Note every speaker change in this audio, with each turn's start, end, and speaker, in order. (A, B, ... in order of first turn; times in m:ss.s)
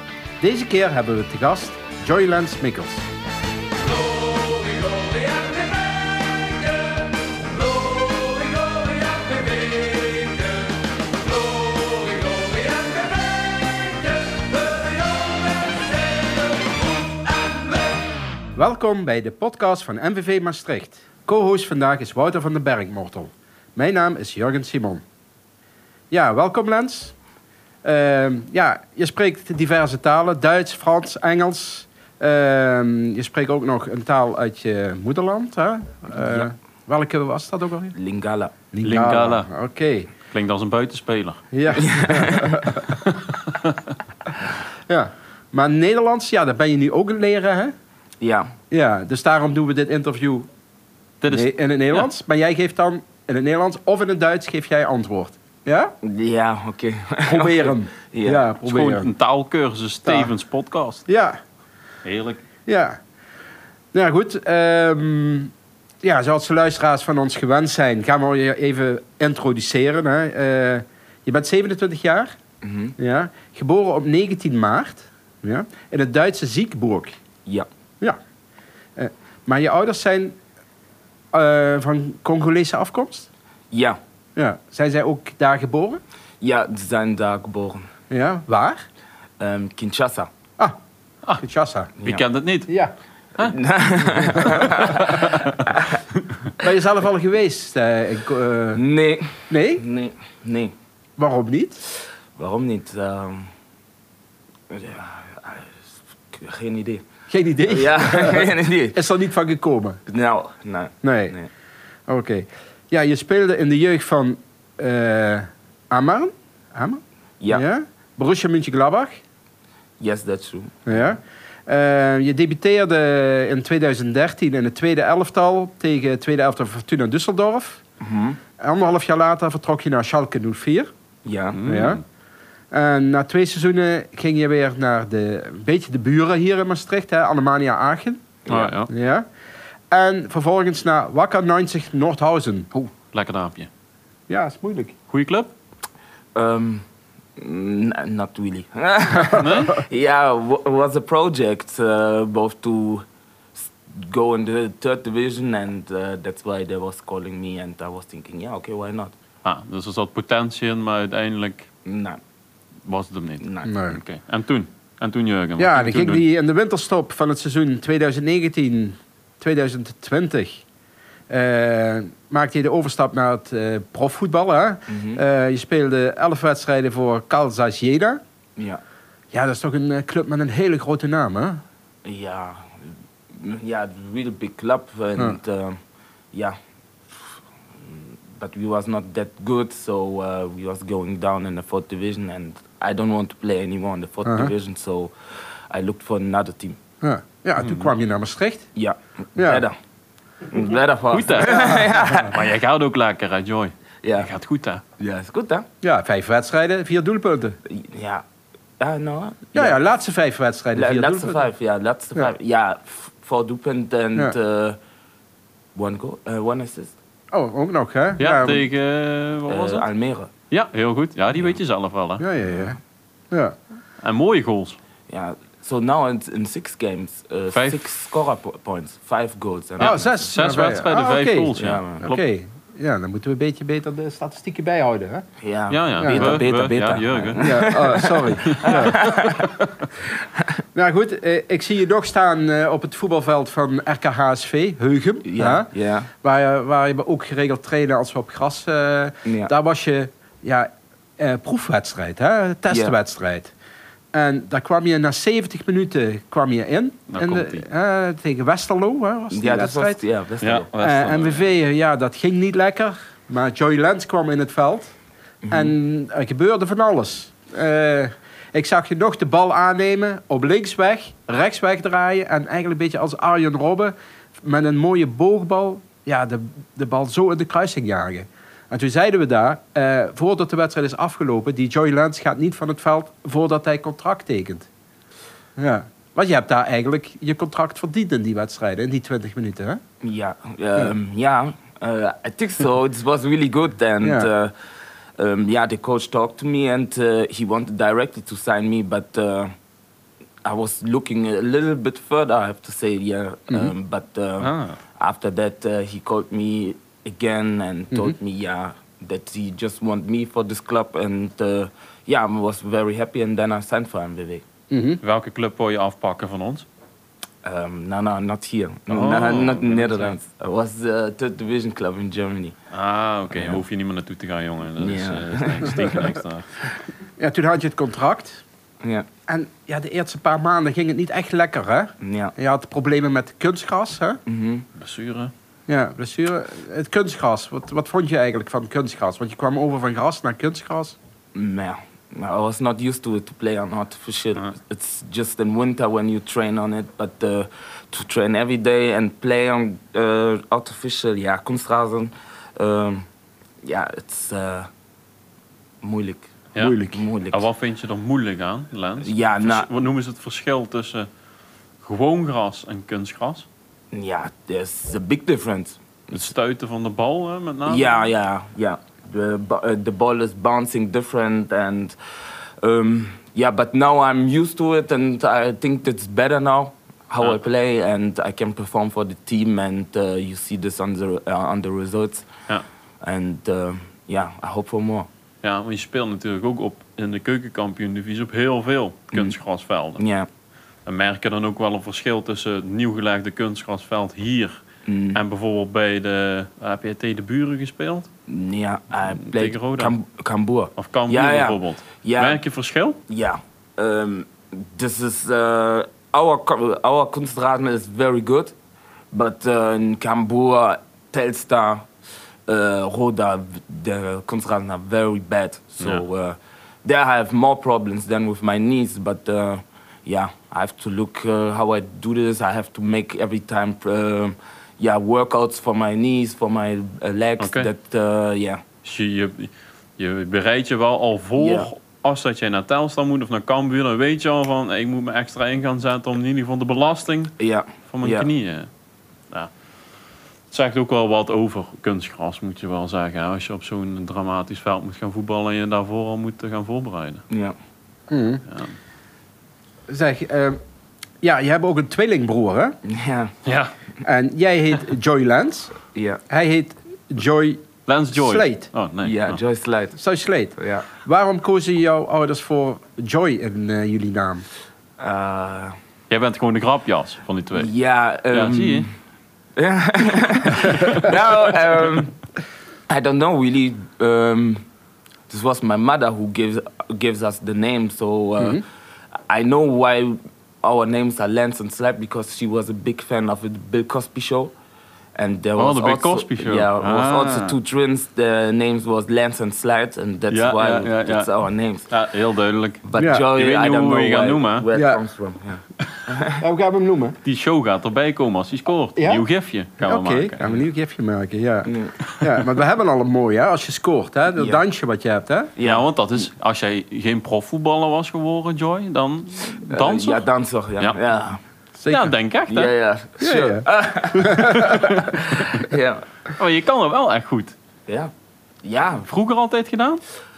0:00.4-0:03.1 A
0:04.3-0:06.6 B
0:07.6-0:10.5 B
0:11.4-0:16.2 B
0:17.3-0:17.7 B
0:18.6-0:25.0 A
0:26.1-0:27.1 A
0:27.8-0:38.0 A
0:38.0-0:38.5 B
0:38.7-0:40.1 A
0:38.8-0:39.5 C
0:40.3-0:41.4 C
0:41.5-0:43.0 A
0:41.8-0:42.6 B
0:43.1-0:43.8 C
0:44.9-0:47.7 A
0:48.2-0:48.6 B
0:48.7-0:50.5 A
0:51.2-0:52.1 C
0:51.3-0:55.9 A
0:56.0-0:58.5 B
0:57.3-0:59.1 A
0:58.6-1:01.0 C
1:00.1-1:00.3 A
1:01.1-1:01.4 A
1:02.0-1:02.4 C
1:02.7-1:03.0 A
1:03.9-1:05.5 A
1:06.0-1:12.4 A
1:12.6-1:12.9 B
1:13.0-1:17.2 A
1:19.0-1:20.4 A
1:21.3-1:23.3 A
1:23.7-1:24.0 B
1:24.4-1:26.0 A
1:26.4-1:27.9 B
1:28.1-1:28.8 A
1:29.4-1:30.3 B
1:31.4-1:31.9 A
1:32.0-1:32.2 B
1:32.0-1:32.7 C
1:32.7-1:32.9 A
1:33.4-1:36.0 B
1:34.1-1:35.5 C
1:36.6-1:38.8 A
1:38.7-1:40.7 B
1:39.5-1:39.8 A
1:41.2-1:41.8 A
1:42.4-1:43.5 B
1:44.7-1:47.0 B
1:47.3-1:50.0 A
1:47.7-1:49.0 B
1:50.1-1:51.5 B
1:51.0-1:51.4 A
1:52.1-1:59.2 A
2:00.0-2:01.1 B
2:00.9-2:07.8 A
2:08.0-2:08.4 B
2:08.6-2:10.9 A
2:11.2-2:11.6 B
2:11.6-2:12.0 C
2:11.7-2:12.0 A
2:12.7-2:18.3 A
2:18.5-2:18.7 B
2:18.5-2:18.9 C
2:18.9-2:19.3 A
2:19.9-2:22.7 A
2:22.7-2:23.7 C
2:24.3-2:25.0 A
2:25.1-2:25.5 C
2:26.4-2:26.8 B
2:27.4-2:33.0 B
2:29.2-2:29.5 A
2:29.4-2:29.8 C
2:33.6-2:39.1 B
2:39.4-2:41.7 C
2:41.8-2:42.2 B
2:42.9-2:46.2 C
2:43.4-2:43.7 B
2:43.7-2:44.0 A
2:45.6-2:50.6 A
2:51.3-2:58.2 A
2:54.9-2:55.2 B
2:59.3-3:01.6 A
3:02.0-3:02.8 B
3:03.3-3:05.8 B
3:07.9-3:15.1 B
3:15.7-3:16.8 B
3:17.0-3:18.7 A
3:17.6-3:17.9 C
3:18.8-3:19.8 B
3:19.4-3:19.6 A
3:20.5-3:22.4 B
3:21.1-3:24.8 C
3:24.0-3:24.3 B
3:25.0-3:25.7 B
3:25.8-3:27.6 A
3:27.6-3:28.2 B
3:28.8-3:29.8 B
3:29.5-3:31.4 A
3:30.7-3:34.8 B
3:35.8-3:37.0 B
3:37.3-3:38.6 A
3:38.2-3:39.9 C
3:39.5-3:40.3 B
3:40.5-3:42.2 C
3:42.2-3:42.8 A
3:44.0-3:44.8 C
3:45.1-3:50.4 B
3:47.5-3:47.9 C
3:49.8-3:52.2 C
3:49.8-3:55.3 A
3:51.6-3:52.1 B
3:55.4-3:59.5 B
3:55.7-3:57.8 C
3:56.0-3:56.4 A
3:57.4-3:59.0 A
3:58.4-3:59.4 C
4:00.2-4:00.5 B
4:00.8-4:13.5 A
4:05.2-4:06.1 B
4:09.2-4:09.5 B
4:14.1-4:20.0 A
4:17.1-4:17.6 C
4:19.3-4:20.7 B
4:20.4-4:21.4 C
4:20.8-4:24.9 A
4:25.4-4:25.7 B
4:25.5-4:44.7 A
4:45.6-4:49.8 A
4:50.0-4:54.5 B
4:54.0-4:54.3 A
4:55.2-4:59.5 B
5:00.4-5:14.4 B
5:04.4-5:04.8 C
5:14.7-5:15.0 A
5:15.0-5:16.7 C
5:17.4-5:22.6 B
5:18.9-5:20.1 C
5:22.7-5:26.7 C
5:23.3-5:23.6 B
5:24.8-5:26.2 B
5:27.2-5:28.4 A
5:28.8-5:29.1 B
5:29.3-5:34.2 A
5:32.0-5:32.4 B
5:34.3-5:34.6 B
5:34.8-5:35.3 C
5:35.7-5:41.0 A
5:41.3-5:53.1 B
5:53.6-5:54.7 B
5:55.8-5:57.4 B
5:56.6-6:01.1 C
5:56.6-5:57.0 A
5:59.0-5:59.7 B
6:01.8-6:03.5 C
6:03.9-6:06.3 B
6:06.1-6:08.1 C
6:07.7-6:12.0 B
6:12.6-6:22.3 B
6:23.0-6:25.1 B
6:25.4-6:30.0 C
6:30.0-6:30.3 B
6:30.9-6:34.6 C
6:34.9-6:35.2 B
6:35.1-6:38.1 C
6:38.3-6:42.4 B
6:39.2-6:39.9 C
6:40.8-6:43.0 C
6:43.1-6:48.5 B
6:49.1-6:51.9 B
6:52.5-7:08.6 B
7:07.4-7:07.7 C
7:08.8-7:17.4 C
7:11.4-7:11.7 B
7:17.4-7:18.3 B
7:17.9-7:18.7 C
7:20.5-7:27.2 C
7:27.3-7:27.6 B
7:28.1-7:28.4 A
7:29.9-7:30.6 A
7:31.2-7:32.8 A
7:32.8-7:33.3 B
7:33.4-7:33.7 C
7:34.0-7:35.8 A
7:35.9-7:36.2 B
7:36.3-7:38.7 A
7:37.9-7:39.4 C
7:39.0-7:40.0 B
7:40.0-7:44.4 A
7:40.6-7:40.9 B
7:45.0-7:45.8 B
7:46.1-7:47.7 C
7:47.5-7:48.9 B
7:48.3-7:48.9 C
7:49.6-7:52.2 B
7:50.7-7:51.1 C
7:52.9-7:54.6 B
7:55.3-7:58.6 B
7:59.3-8:04.5 B
8:05.2-8:11.9 B
8:05.6-8:07.6 C
8:10.3-8:11.3 C
8:11.9-8:14.7 C
8:12.8-8:16.4 B
8:13.0-8:13.3 A
8:14.8-8:15.0 A
8:16.4-8:17.2 A
8:17.2-8:20.4 C
8:19.0-8:19.2 A
8:19.8-8:25.5 A
8:21.6-8:22.0 B
8:22.1-8:22.4 C
8:24.4-8:24.6 B
8:25.6-8:25.9 B
8:25.6-8:30.2 C
8:29.5-8:31.4 B
8:31.8-8:32.1 A
8:31.9-8:32.7 C
8:32.5-8:36.1 B
8:33.2-8:35.0 A
8:34.6-8:35.4 C
8:36.4-8:37.6 C
8:38.6-8:39.1 B
8:39.1-8:40.0 C